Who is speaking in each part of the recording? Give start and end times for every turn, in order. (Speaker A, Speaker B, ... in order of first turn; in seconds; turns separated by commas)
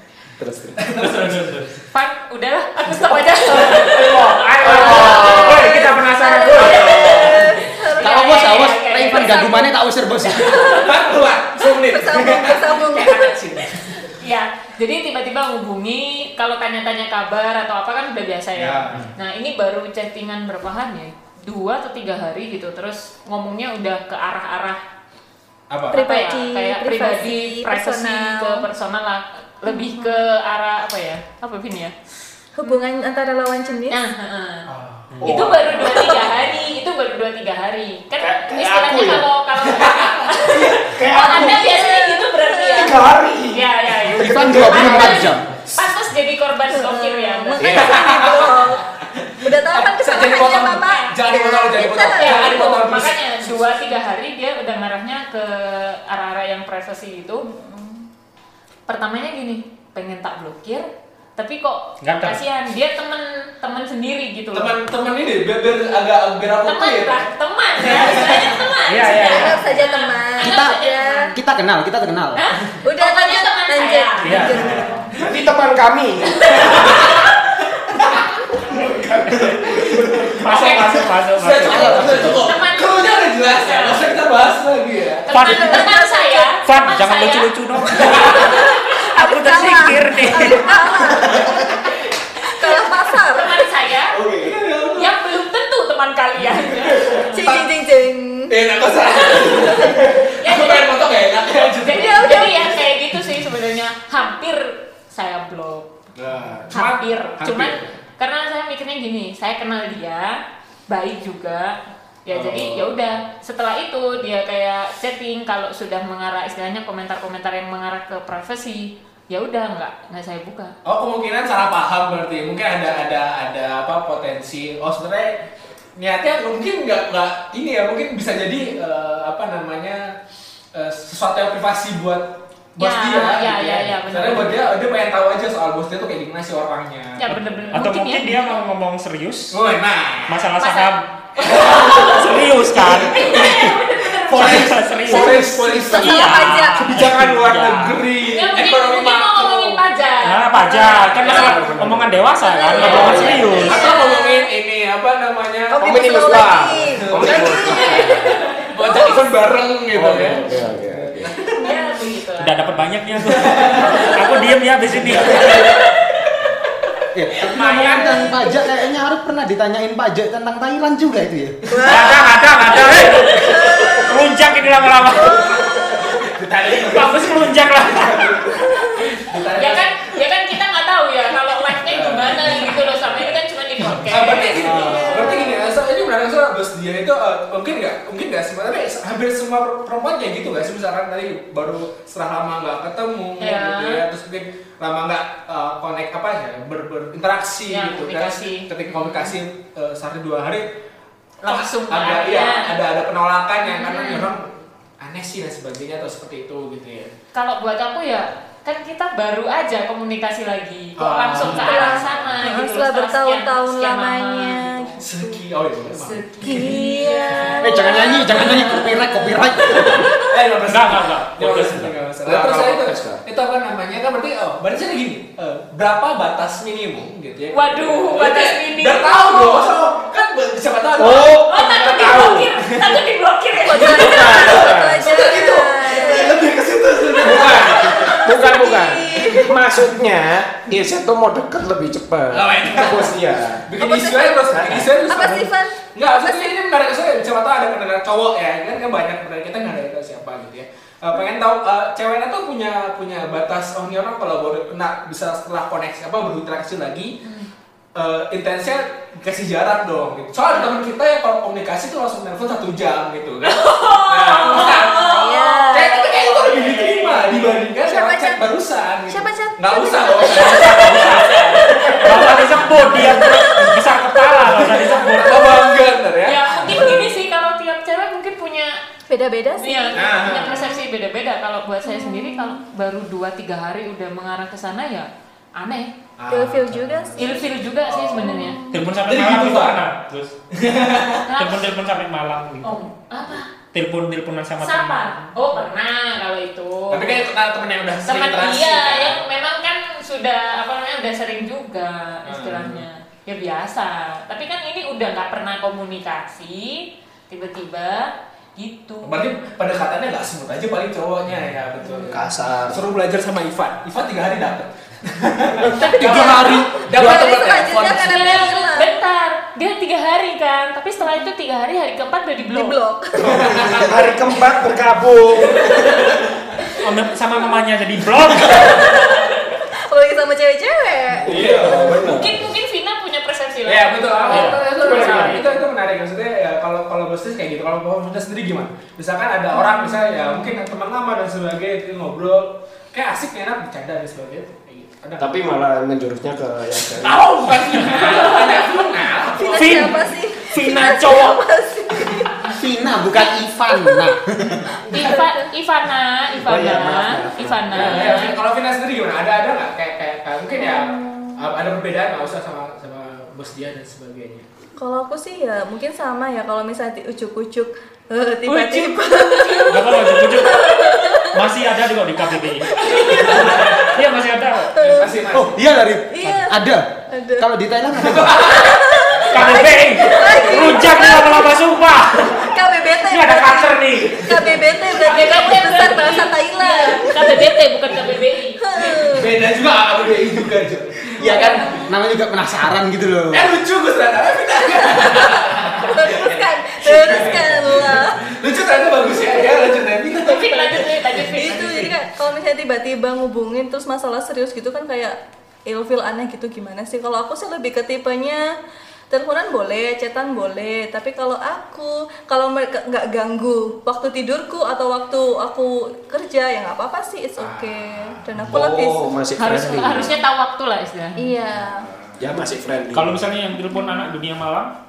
Speaker A: 0.4-0.9, Speaker B: 0.8-1.8, Speaker C: 1.9-5.7, Speaker B: 3.5-5.0, Speaker D: 3.7-7.0, Speaker A: 4.6-5.6, Speaker E: 4.8-9.7, Speaker C: 6.5-9.7, Speaker A: 6.8-7.3, Speaker F: 8.0-10.8, Speaker E: 10.2-10.9, Speaker C: 10.4-10.7, Speaker B: 10.6-14.0, Speaker E: 11.6-13.4, Speaker C: 14.1-24.8, Speaker B: 18.6-19.1, Speaker B: 25.7-26.0, Speaker E: 25.9-28.6, Speaker C: 25.9-31.9, Speaker E: 29.6-30.2, Speaker E: 32.6-34.0, Speaker C: 33.9-34.7, Speaker B: 34.7-35.2, Speaker D: 35.1-35.4, Speaker A: 35.2-36.3, Speaker C: 35.2-48.5, Speaker A: 38.2-39.3, Speaker B: 39.7-40.4, Speaker A: 40.4-41.6, Speaker E: 41.1-43.0, Speaker A: 42.7-43.6, Speaker A: 44.1-45.3, Speaker F: 44.2-45.5, Speaker E: 46.7-48.8, Speaker B: 47.6-53.6, Speaker A: 47.6-47.9, Speaker E: 49.4-52.8, Speaker C: 50.3-51.1, Speaker C: 51.8-57.4, Speaker E: 57.4-58.1, Speaker C: 58.9-64.7, Speaker D: 62.0-62.4, Speaker B: 64.5-68.6, Speaker C: 66.7-71.3, Speaker D: 68.8-69.7, Speaker E: 69.3-71.3, Speaker F: 70.4-70.8, Speaker F: 71.3-72.4, Speaker C: 72.4-74.8, Speaker E: 72.8-75.0, Speaker D: 74.2-74.9, Speaker B: 74.6-74.9, Speaker A: 75.2-77.0, Speaker C: 76.3-77.6, Speaker B: 76.5-77.3, Speaker B: 78.0-85.3, Speaker A: 78.7-80.9, Speaker D: 80.4-82.3, Speaker F: 81.6-82.4, Speaker C: 81.8-84.0, Speaker C: 85.3-87.5, Speaker D: 85.3-86.0, Speaker E: 85.4-86.5, Speaker D: 86.6-90.7, Speaker E: 88.0-91.7, Speaker C: 88.2-88.6, Speaker C: 90.5-91.6, Speaker E: 92.4-93.6, Speaker C: 92.6-94.2, Speaker A: 94.2-94.6, Speaker B: 94.3-95.1, Speaker C: 95.0-97.5, Speaker B: 96.7-97.7, Speaker E: 97.3-98.6, Speaker B: 98.5-102.8, Speaker C: 99.1-100.9, Speaker E: 99.1-100.0, Speaker C: 101.8-105.9, Speaker E: 101.9-102.8, Speaker B: 106.2-107.9, Speaker C: 106.7-120.7, Speaker B: 112.3-113.0, Speaker B: 120.8-130.1, Speaker B: 130.7-137.8, Speaker C: 132.8-134.6, Speaker C: 137.2-138.6, Speaker D: 137.7-139.6, Speaker B: 139.5-140.4, Speaker D: 140.3-143.7, Speaker C: 140.6-145.3, Speaker B: 141.4-142.1, Speaker B: 142.8-143.5, Speaker D: 144.3-148.0, Speaker B: 144.3-149.8, Speaker A: 145.1-146.0, Speaker E: 145.7-146.9, Speaker C: 148.2-151.6, Speaker D: 150.2-153.9, Speaker B: 151.2-151.6, Speaker A: 151.3-152.2, Speaker E: 152.4-154.1, Speaker C: 152.7-154.4, Speaker A: 152.8-153.8, Speaker B: 152.8-161.7, Speaker E: 155.7-157.8, Speaker A: 155.8-158.3, Speaker C: 157.2-159.2, Speaker E: 158.8-159.2, Speaker A: 159.9-161.3, Speaker C: 161.6-162.8, Speaker D: 162.4-165.7, Speaker B: 163.1-164.1, Speaker C: 163.9-164.1, Speaker A: 165.0-165.7, Speaker C: 165.2-165.9, Speaker F: 167.1-171.7, Speaker C: 167.6-168.0, Speaker D: 167.6-168.2, Speaker E: 167.8-168.2, Speaker E: 171.7-174.0, Speaker D: 171.8-175.7, Speaker B: 172.8-173.5, Speaker B: 175.2-179.9, Speaker E: 175.3-175.9, Speaker D: 176.9-178.5, Speaker E: 178.6-178.9, Speaker C: 179.6-185.5, Speaker B: 181.8-183.2, Speaker B: 183.9-200.7, Speaker E: 184.6-185.7, Speaker C: 193.4-194.0, Speaker C: 197.7-199.3, Speaker C: 201.4-202.7, Speaker B: 201.4-207.1, Speaker C: 203.7-204.3, Speaker C: 207.3-215.0, Speaker B: 211.0-212.6, Speaker E: 211.4-215.4, Speaker B: 215.0-216.8, Speaker C: 215.9-219.0, Speaker E: 216.4-220.3, Speaker F: 217.6-220.1, Speaker B: 220.3-233.0, Speaker D: 220.7-221.9, Speaker A: 222.2-223.2, Speaker C: 227.5-229.7, Speaker A: 231.0-232.5, Speaker C: 231.4-234.5, Speaker E: 233.7-236.5, Speaker B: 233.8-238.2, Speaker A: 233.8-243.7, Speaker E: 237.2-239.5, Speaker C: 237.4-238.2, Speaker B: 242.3-257.2, Speaker E: 243.8-244.4, Speaker A: 244.5-244.9, Speaker E: 244.9-246.5, Speaker B: 257.9-273.2, Speaker C: 263.4-267.6, Speaker E: 264.5-266.0, Speaker E: 267.9-268.4, Speaker E: 269.1-271.2, Speaker D: 270.2-275.5, Speaker E: 271.8-274.0, Speaker B: 274.6-277.0, Speaker E: 274.8-275.4, Speaker C: 275.2-275.7, Speaker C: 276.2-278.8, Speaker E: 276.7-277.1, Speaker E: 279.1-280.8, Speaker C: 279.6-285.9, Speaker B: 279.9-280.6, Speaker E: 281.8-282.6, Speaker B: 286.2-288.4, Speaker E: 286.3-287.4, Speaker C: 287.2-288.6, Speaker E: 288.2-288.8, Speaker D: 288.7-290.3, Speaker B: 289.1-289.9, Speaker B: 290.5-291.2, Speaker C: 291.2-291.6, Speaker D: 291.4-292.8, Speaker C: 292.6-293.5, Speaker D: 293.7-295.3, Speaker C: 294.6-297.1, Speaker B: 296.9-299.2, Speaker C: 298.1-309.3, Speaker B: 302.2-302.8, Speaker B: 309.0-318.5, Speaker E: 311.8-312.2, Speaker A: 312.1-312.8, Speaker E: 315.7-318.9, Speaker C: 315.8-316.6, Speaker C: 317.8-322.8, Speaker E: 321.0-321.3, Speaker E: 322.5-324.2, Speaker B: 323.2-323.9, Speaker A: 323.2-326.0, Speaker B: 325.7-326.0, Speaker D: 326.8-329.1, Speaker E: 328.4-332.0, Speaker B: 331.2-332.1, Speaker A: 331.2-332.5, Speaker C: 331.8-335.6, Speaker B: 333.6-345.3, Speaker D: 334.3-335.4, Speaker E: 339.5-340.6, Speaker A: 345.2-347.3, Speaker B: 347.0-350.0, Speaker C: 347.9-348.6, Speaker E: 349.3-353.2, Speaker D: 349.5-351.4, Speaker F: 352.5-354.7, Speaker E: 353.8-354.0, Speaker E: 354.9-355.5, Speaker C: 354.9-358.4, Speaker A: 356.4-358.0, Speaker B: 357.7-364.4, Speaker E: 360.6-361.4, Speaker E: 364.8-371.5, Speaker C: 368.5-370.1, Speaker D: 369.6-370.8, Speaker D: 371.3-374.7, Speaker E: 372.2-374.0, Speaker B: 373.3-373.8, Speaker E: 374.8-375.2, Speaker B: 374.8-375.6, Speaker F: 375.3-376.8, Speaker E: 376.1-376.6, Speaker E: 377.1-377.5, Speaker F: 377.4-378.5, Speaker B: 377.9-379.0, Speaker E: 378.3-381.6, Speaker D: 379.3-382.4, Speaker B: 380.1-380.6, Speaker E: 382.2-387.5, Speaker D: 383.0-384.5, Speaker C: 384.9-389.0, Speaker E: 388.6-389.4, Speaker B: 389.1-391.6, Speaker F: 391.2-393.5, Speaker E: 391.2-391.9, Speaker B: 393.3-400.8, Speaker E: 394.7-398.2, Speaker E: 399.0-399.8, Speaker C: 400.1-401.9, Speaker E: 400.3-408.4, Speaker E: 409.1-419.1, Speaker B: 417.4-418.2, Speaker A: 418.5-420.1, Speaker C: 419.4-421.2, Speaker E: 421.2-421.9, Speaker A: 422.2-423.2, Speaker D: 422.9-424.7, Speaker E: 423.7-424.1